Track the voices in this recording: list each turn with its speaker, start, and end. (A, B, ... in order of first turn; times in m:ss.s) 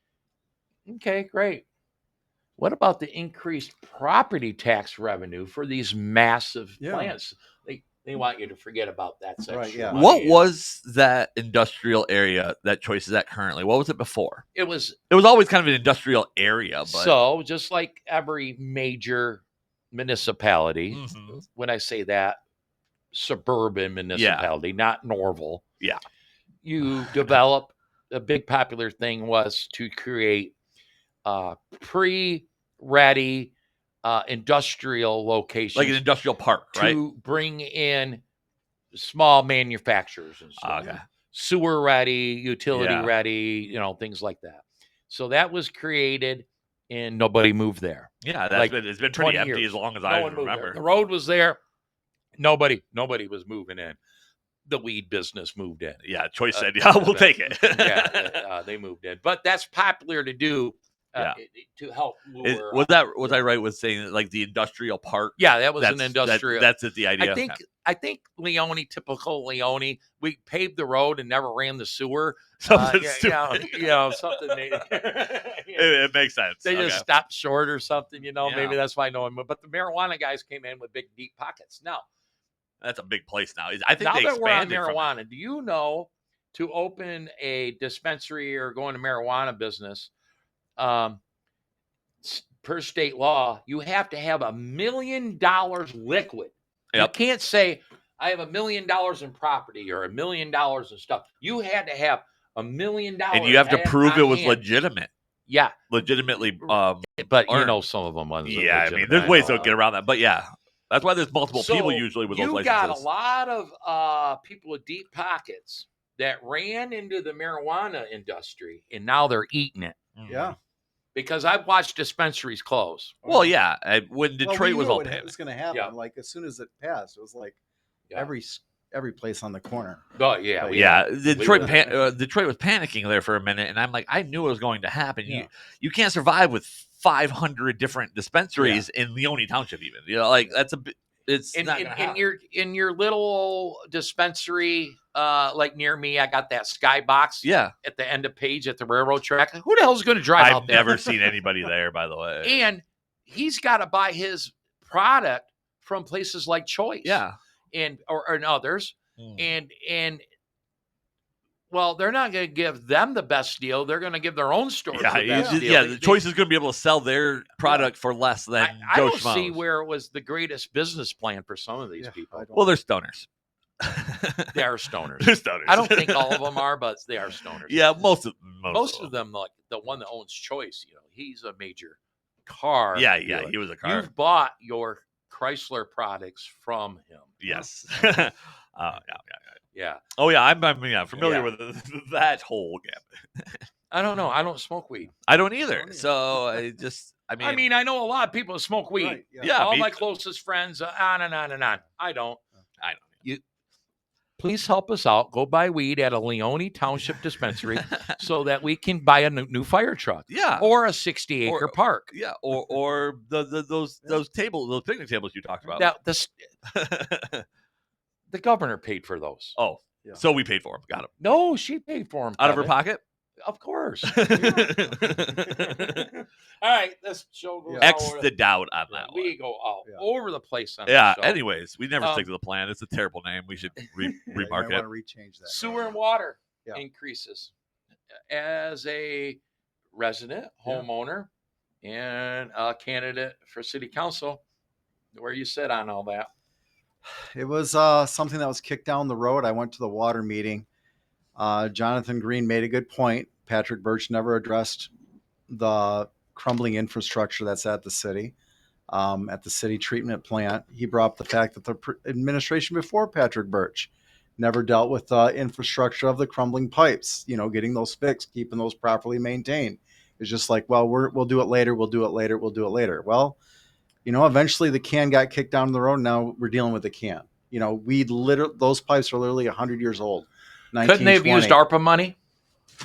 0:00.9-0:01.6 A
0:02.6-0:10.5 A
0:06.8-0:07.1 B
0:09.5-0:10.0 B
0:09.9-0:14.4 C
0:14.6-0:15.0 A
0:15.1-0:17.1 C
0:16.9-0:22.4 A
0:20.9-0:21.4 C
0:23.1-0:25.6 A
0:24.2-0:24.5 C
0:26.6-0:30.6 A
0:31.2-0:33.5 A
0:34.0-0:36.0 A
0:35.8-0:37.0 C
0:36.7-0:38.2 A
0:38.9-0:51.6 A
0:40.6-0:41.0 C
0:42.7-0:43.1 C
0:48.2-0:50.8 C
0:52.4-0:54.0 A
0:54.7-0:56.0 A
0:56.0-0:58.4 C
0:56.5-1:03.4 A
1:02.4-1:07.6 C
1:05.4-1:16.0 A
1:12.6-1:14.6 C
1:15.8-1:17.0 C
1:16.6-1:22.0 A
1:18.4-1:18.8 C
1:22.8-1:25.1 C
1:24.0-1:30.1 A
1:30.8-1:31.2 A
1:32.2-1:44.6 A
1:43.3-1:45.1 C
1:45.5-1:45.8 A
1:45.9-1:47.8 C
1:46.6-1:49.8 A
1:48.4-1:53.0 C
1:51.5-2:00.0 A
2:00.2-2:00.5 C
2:00.3-2:00.6 B
2:01.2-2:03.2 A
2:03.2-2:03.5 B
2:03.2-2:05.3 C
2:04.4-2:07.6 B
2:08.2-2:10.0 B
2:10.2-2:11.9 A
2:10.6-2:11.9 B
2:10.7-2:22.2 C
2:18.6-2:18.8 B
2:21.5-2:31.1 A
2:27.4-2:27.7 C
2:30.4-2:32.6 C
2:32.4-2:40.2 A
2:37.0-2:37.4 C
2:39.2-2:39.5 C
2:41.7-2:46.2 A
2:44.9-2:49.6 C
2:45.3-2:45.6 B
2:48.6-2:52.5 A
2:52.0-2:52.8 B
2:52.5-2:53.3 C
2:53.8-2:54.7 C
2:54.5-2:57.9 A
2:55.2-2:56.6 C
2:57.5-2:59.1 C
2:58.7-3:07.6 A
3:03.0-3:04.1 C
3:07.4-3:09.4 C
3:09.7-3:10.0 A
3:10.2-3:13.6 C
3:11.2-3:11.5 A
3:13.9-3:15.1 A
3:15.3-3:17.6 C
3:15.7-3:16.6 B
3:17.4-3:22.4 A
3:19.0-3:19.6 B
3:19.4-3:20.0 C
3:22.8-3:23.1 C
3:24.4-3:32.1 A
3:30.3-3:30.7 C
3:31.4-3:35.9 C
3:35.8-3:36.3 A
3:36.7-3:37.4 C
3:38.3-3:39.6 A
3:39.6-3:41.1 C
3:41.2-3:42.8 A
3:42.4-3:43.0 C
3:43.4-3:48.3 A
3:44.1-3:46.1 C
3:44.4-3:44.9 B
3:47.7-3:47.9 B
3:47.8-3:49.4 C
3:48.9-3:51.4 A
3:50.9-3:54.8 C
3:52.0-3:52.3 A
3:53.8-3:54.1 A
3:54.3-3:55.9 B
3:55.5-3:57.5 A
3:58.3-3:59.4 A
3:59.9-4:01.3 A
4:01.8-4:04.4 A
4:05.1-4:06.3 A
4:07.4-4:10.7 B
4:11.4-4:14.9 B
4:15.5-4:18.3 B
4:18.9-4:33.4 B
4:34.0-4:41.6 B
4:40.8-4:42.2 A